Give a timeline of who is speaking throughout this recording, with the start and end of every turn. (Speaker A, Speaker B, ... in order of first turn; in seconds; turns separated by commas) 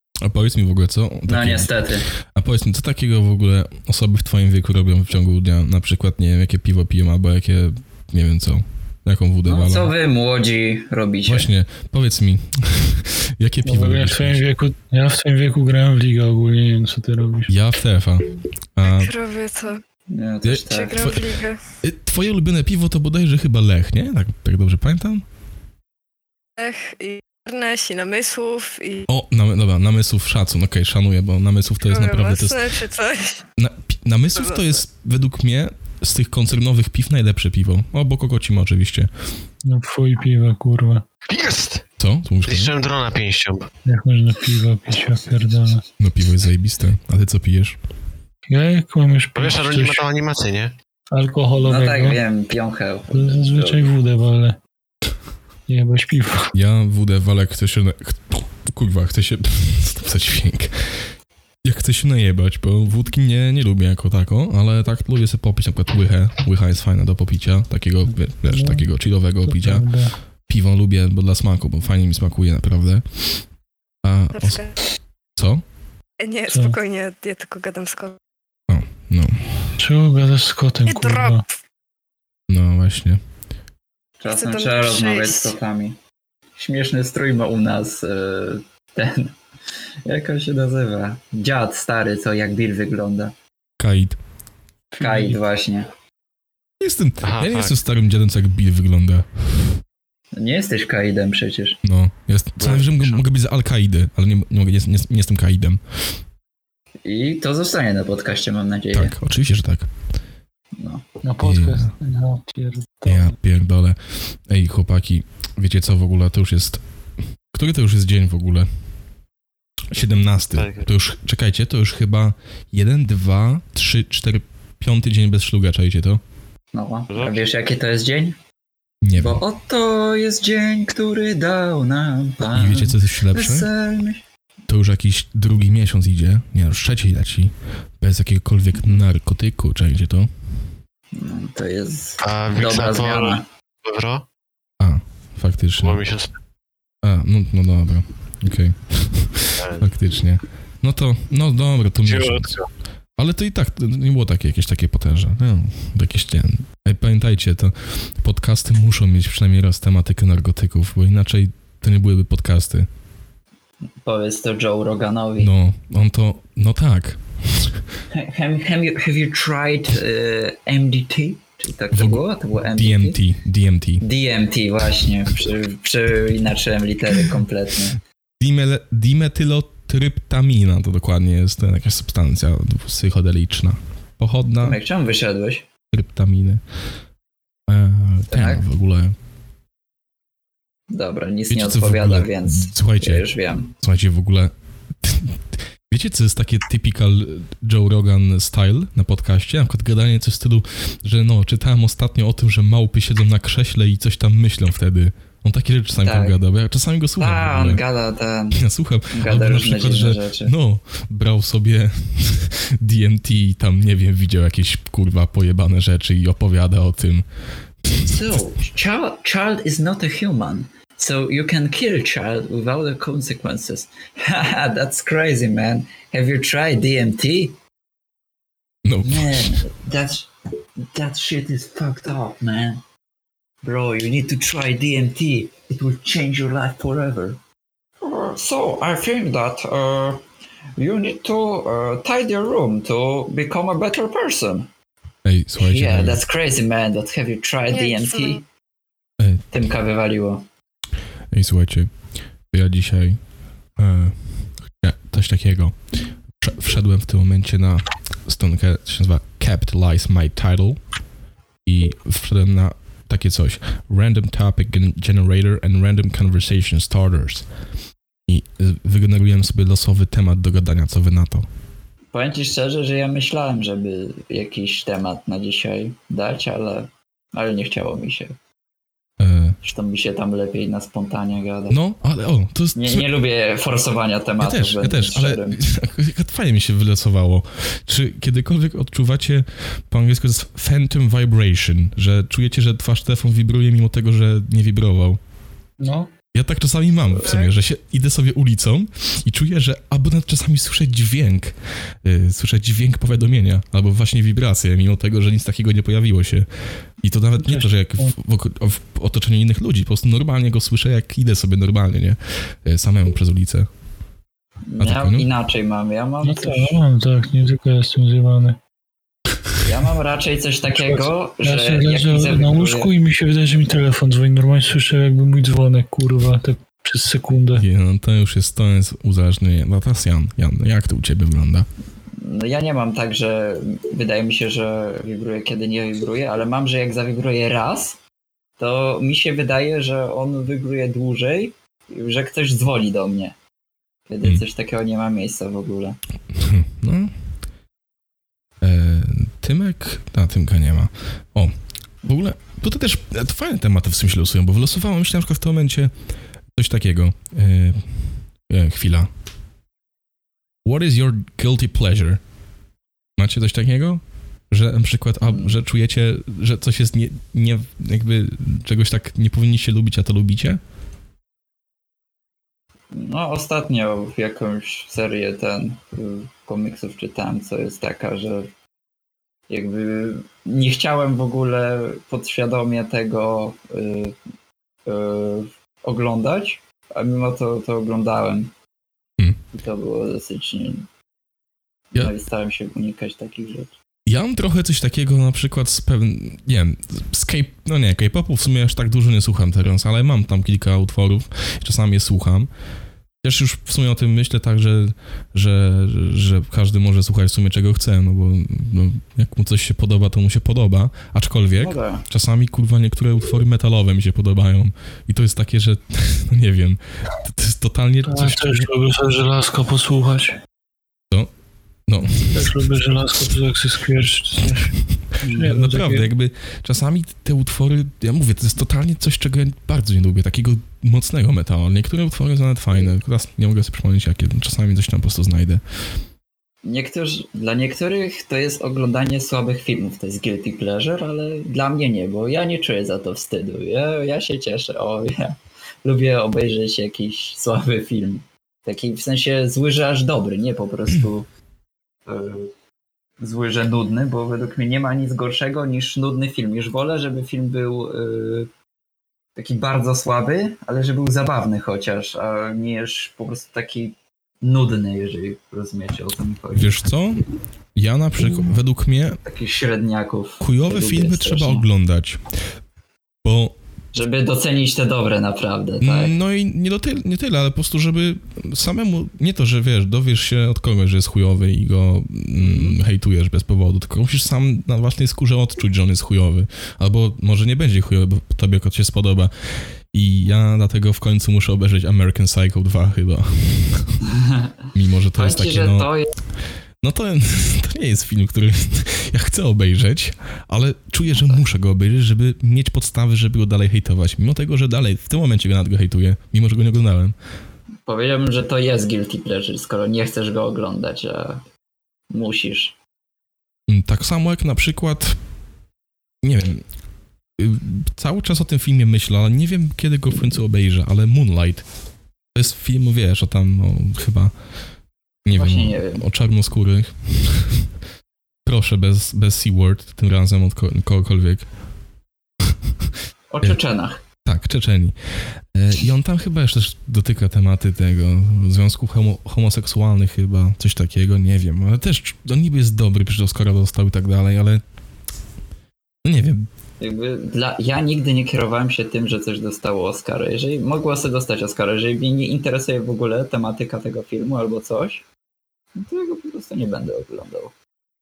Speaker A: 0.2-1.8, Speaker B: 1.3-2.1, Speaker A: 2.3-9.9, Speaker B: 9.4-11.5, Speaker A: 11.3-14.5, Speaker C: 13.6-17.5, Speaker A: 17.5-19.1, Speaker D: 18.8-19.8, Speaker B: 20.1-21.0, Speaker A: 20.4-21.2, Speaker D: 20.7-21.6, Speaker A: 21.8-25.2, Speaker D: 26.6-29.1, Speaker A: 29.1-32.6, Speaker D: 31.9-33.4, Speaker A: 33.6-39.1, Speaker D: 34.4-34.7, Speaker C: 39.6-41.0, Speaker E: 41.3-41.8, Speaker A: 42.0-42.7, Speaker E: 42.5-43.7, Speaker C: 43.9-45.8, Speaker A: 46.0-47.8, Speaker C: 48.5-50.0, Speaker E: 49.4-50.7, Speaker C: 51.1-52.2, Speaker B: 51.6-53.9, Speaker C: 53.1-54.6, Speaker C: 55.7-56.5, Speaker A: 56.5-61.0, Speaker A: 61.6-69.8, Speaker C: 68.4-68.9, Speaker C: 69.4-70.1, Speaker A: 70.5-73.0, Speaker A: 74.0-74.6, Speaker D: 74.3-74.7, Speaker A: 75.3-75.6, Speaker D: 76.2-78.2, Speaker C: 76.5-76.8, Speaker A: 78.7-79.4, Speaker C: 79.8-81.4, Speaker D: 80.8-81.5, Speaker A: 82.5-83.2, Speaker B: 84.2-86.0, Speaker D: 84.3-85.5, Speaker B: 86.6-89.3, Speaker B: 90.0-93.3, Speaker A: 93.8-94.2, Speaker B: 95.0-95.9, Speaker C: 95.0-95.3, Speaker A: 96.8-99.7, Speaker E: 97.2-97.8, Speaker B: 100.3-101.8, Speaker A: 101.8-105.8, Speaker E: 102.6-103.2, Speaker B: 107.0-109.1, Speaker A: 108.9-109.9, Speaker B: 110.8-111.0, Speaker C: 111.2-113.3, Speaker A: 111.4-111.9, Speaker A: 113.0-116.8, Speaker A: 117.5-118.7, Speaker A: 119.9-126.2, Speaker E: 119.9-120.9, Speaker B: 126.7-128.4, Speaker E: 127.1-127.4, Speaker A: 129.0-129.4, Speaker B: 129.1-134.2, Speaker A: 132.5-133.7, Speaker A: 134.7-140.3, Speaker B: 138.8-139.0, Speaker B: 141.1-143.4, Speaker E: 142.2-144.2, Speaker A: 144.8-146.0, Speaker E: 145.8-146.3, Speaker A: 147.0-152.6, Speaker E: 149.6-149.9, Speaker E: 152.0-152.7, Speaker A: 153.2-162.9, Speaker B: 164.0-165.5, Speaker A: 165.4-167.8, Speaker B: 168.1-173.2, Speaker A: 171.9-174.0, Speaker B: 174.0-178.0, Speaker A: 178.4-184.8, Speaker B: 184.6-185.7, Speaker A: 185.9-186.6, Speaker A: 187.7-189.1, Speaker B: 188.3-188.6, Speaker B: 190.9-193.7, Speaker A: 191.5-207.8, Speaker B: 206.0-206.4, Speaker B: 207.2-210.5, Speaker A: 208.6-217.2, Speaker B: 218.0-227.6, Speaker A: 228.8-229.6, Speaker B: 229.0-230.3, Speaker B: 230.9-232.8, Speaker B: 233.6-237.4, Speaker B: 238.0-240.2, Speaker B: 240.8-244.7, Speaker A: 245.2-246.2, Speaker B: 245.6-248.4, Speaker D: 247.7-248.4, Speaker A: 249.2-249.5, Speaker B: 249.5-250.4, Speaker A: 251.3-251.9, Speaker A: 252.5-253.2, Speaker A: 253.8-255.8, Speaker A: 256.4-260.8, Speaker A: 261.6-267.4, Speaker A: 268.3-271.5, Speaker B: 272.1-278.4, Speaker A: 279.2-279.6, Speaker B: 279.6-281.8, Speaker A: 281.7-283.1, Speaker B: 282.7-285.6, Speaker A: 284.4-295.2, Speaker C: 295.8-296.1, Speaker A: 296.3-301.5, Speaker A: 302.0-306.5, Speaker A: 307.0-313.7, Speaker C: 307.4-308.1, Speaker B: 314.7-316.8, Speaker A: 314.8-315.3, Speaker C: 316.2-318.6, Speaker B: 319.6-322.9, Speaker C: 320.7-327.6, Speaker A: 327.6-331.7, Speaker B: 332.2-338.0, Speaker B: 338.6-343.3, Speaker B: 344.1-346.0, Speaker A: 346.3-347.1, Speaker A: 348.6-351.5, Speaker A: 352.0-355.9, Speaker A: 356.5-357.8, Speaker A: 358.4-359.1, Speaker A: 360.6-362.2, Speaker A: 363.2-370.6, Speaker B: 365.2-365.6, Speaker B: 372.9-378.5, Speaker B: 379.5-384.1, Speaker B: 384.9-388.5, Speaker B: 389.5-390.9, Speaker B: 391.9-393.7, Speaker A: 394.1-402.5, Speaker A: 403.2-418.7, Speaker B: 411.6-412.0, Speaker C: 418.0-420.3, Speaker A: 421.9-422.5, Speaker C: 422.2-426.1, Speaker A: 425.3-435.6, Speaker B: 436.6-451.3, Speaker B: 452.1-452.5, Speaker B: 453.2-458.5, Speaker B: 459.4-466.7, Speaker A: 466.5-469.2, Speaker B: 469.2-471.7, Speaker A: 470.4-472.2, Speaker A: 473.2-473.6, Speaker B: 473.9-476.1, Speaker A: 475.8-489.3, Speaker B: 482.4-482.8, Speaker A: 489.9-494.0, Speaker B: 494.2-494.5, Speaker A: 494.7-495.9, Speaker B: 495.1-496.1, Speaker A: 496.8-507.1, Speaker B: 501.1-501.4, Speaker B: 507.9-511.4, Speaker B: 512.1-512.8, Speaker A: 513.7-515.2, Speaker A: 516.2-516.6, Speaker A: 517.4-521.6, Speaker A: 522.3-524.3, Speaker A: 525.2-527.7, Speaker B: 525.3-526.0, Speaker A: 528.5-531.5, Speaker B: 533.3-534.0, Speaker A: 534.2-535.0, Speaker A: 535.5-544.6, Speaker A: 546.0-546.5, Speaker B: 546.8-555.0, Speaker B: 555.8-557.5